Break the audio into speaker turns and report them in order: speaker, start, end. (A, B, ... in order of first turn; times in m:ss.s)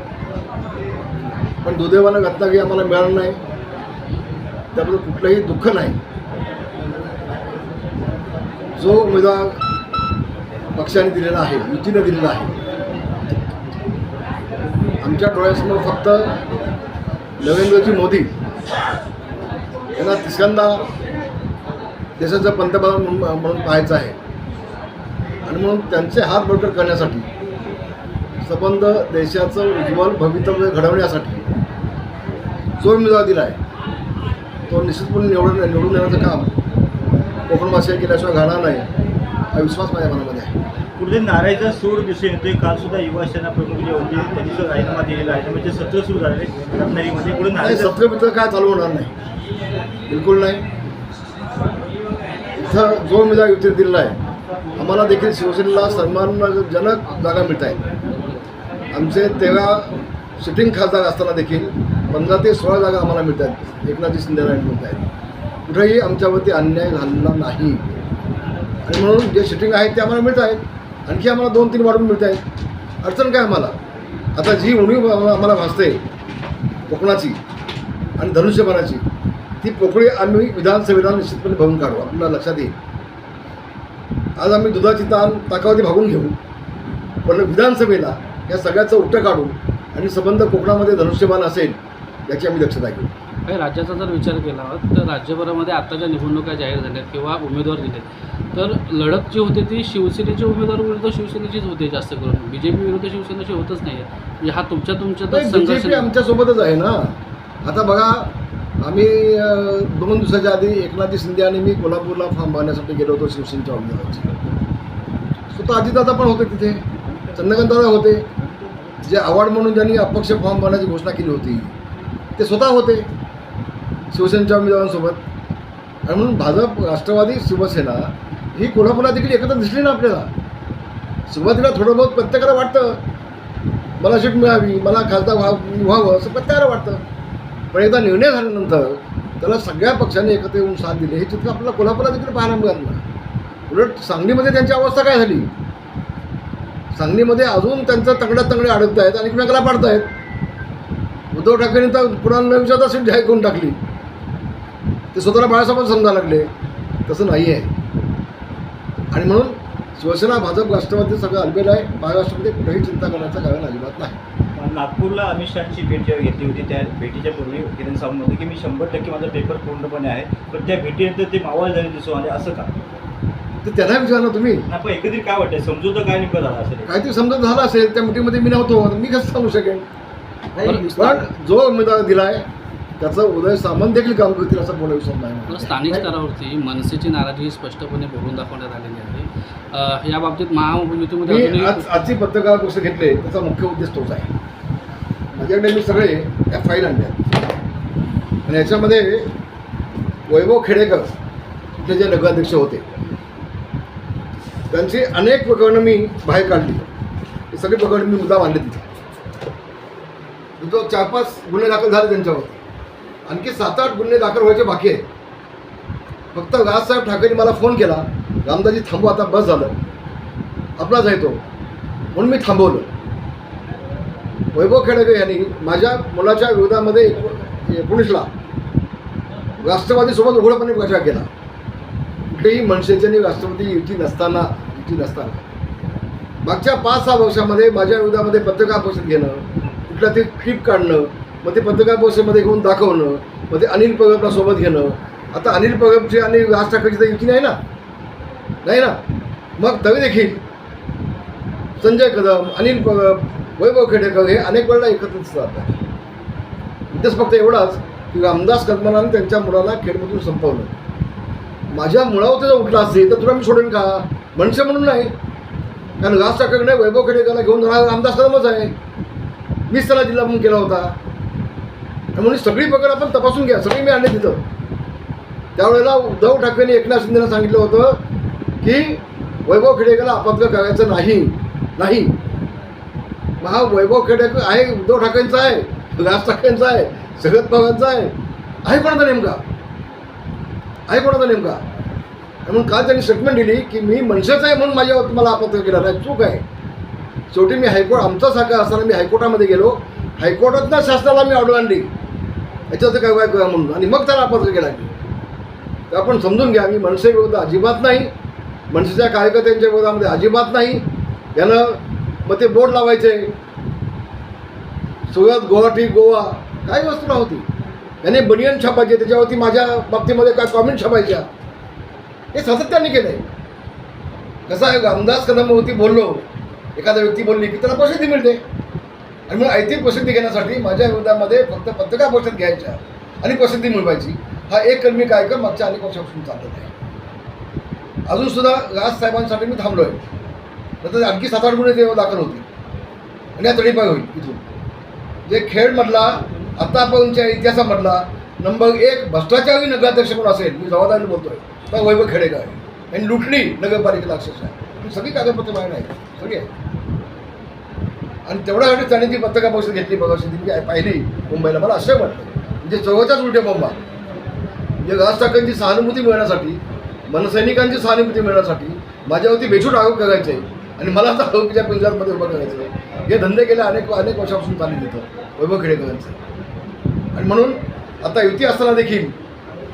0:01.6-0:03.4 A
0:04.7-0:06.0 A
0:08.8-0:09.6 A
0:10.7-0:12.6 A
0:15.0-0:16.4 A
0:17.4-0:18.3 A
0:20.0-0:20.8 A
0:22.2-0:24.2 A
0:25.4-0:27.3 A
0:28.4-0:31.5 A
0:32.8-0:33.6 A
0:34.7-0:36.5 A
0:37.5-0:38.9 A
0:39.5-0:40.5 A
0:41.0-0:48.0 B
0:47.6-0:49.1 A
0:50.1-0:50.6 A
0:52.6-0:54.2 A
0:54.8-0:57.8 A
0:58.9-1:05.1 A
1:05.6-1:07.8 A
1:08.8-1:12.4 A
1:13.0-1:13.7 A
1:14.3-1:16.0 A
1:16.9-1:17.4 A
1:18.2-1:19.0 A
1:19.6-1:22.7 A
1:24.4-1:26.4 A
1:27.2-1:33.1 A
1:33.5-1:46.1 C
1:45.3-1:54.2 A
1:55.5-1:56.8 A
1:57.0-1:59.0 B
1:57.4-1:58.2 A
1:59.0-2:01.7 A
2:02.4-2:03.1 A
2:04.1-2:05.2 A
2:06.0-2:10.3 A
2:11.3-2:13.0 A
2:14.0-2:17.0 A
2:17.7-2:23.0 A
2:23.7-2:25.5 A
2:26.9-2:30.1 A
2:31.3-2:33.8 A
2:35.1-2:36.5 A
2:37.1-2:37.7 A
2:39.1-2:44.2 A
2:44.6-2:52.7 B
2:53.6-2:54.6 A
2:54.7-2:56.9 B
2:56.8-2:59.8 A
3:00.6-3:01.2 C
3:00.8-3:02.4 A
3:03.0-3:05.9 A
3:05.5-3:11.9 C
3:11.3-3:14.3 A
3:15.3-3:17.2 A
3:18.4-3:19.3 A
3:20.3-3:21.1 A
3:21.8-3:22.8 A
3:24.7-3:26.8 A
3:27.5-3:28.8 A
3:30.6-3:32.6 A
3:33.2-3:35.0 A
3:36.3-3:39.8 A
3:40.8-3:41.4 A
3:42.1-3:42.9 A
3:44.5-3:48.3 A
3:49.6-3:51.3 A
3:52.3-3:55.4 A
3:56.4-4:07.6 A
4:08.6-4:08.9 A
4:09.6-4:10.4 A
4:11.8-4:15.8 A
4:16.9-4:20.8 A
4:21.7-4:25.1 A
4:26.0-4:28.7 A
4:29.7-4:30.9 A
4:32.1-4:34.4 A
4:35.6-4:38.0 A
4:38.6-4:42.1 A
4:43.4-4:49.4 A
4:50.9-4:51.6 A
4:52.4-4:56.4 A
4:57.3-5:01.9 A
5:02.7-5:04.9 A
5:05.9-5:08.1 A
5:08.7-5:13.3 A
5:15.1-5:17.4 A
5:18.0-5:21.3 A
5:22.3-5:23.3 A
5:24.5-5:28.4 A
5:29.3-5:36.7 A
5:38.1-5:40.0 A
5:40.8-5:42.4 A
5:43.4-5:44.4 A
5:45.3-5:56.5 A
5:58.2-6:03.8 A
6:04.8-6:16.2 A
6:17.1-6:19.1 A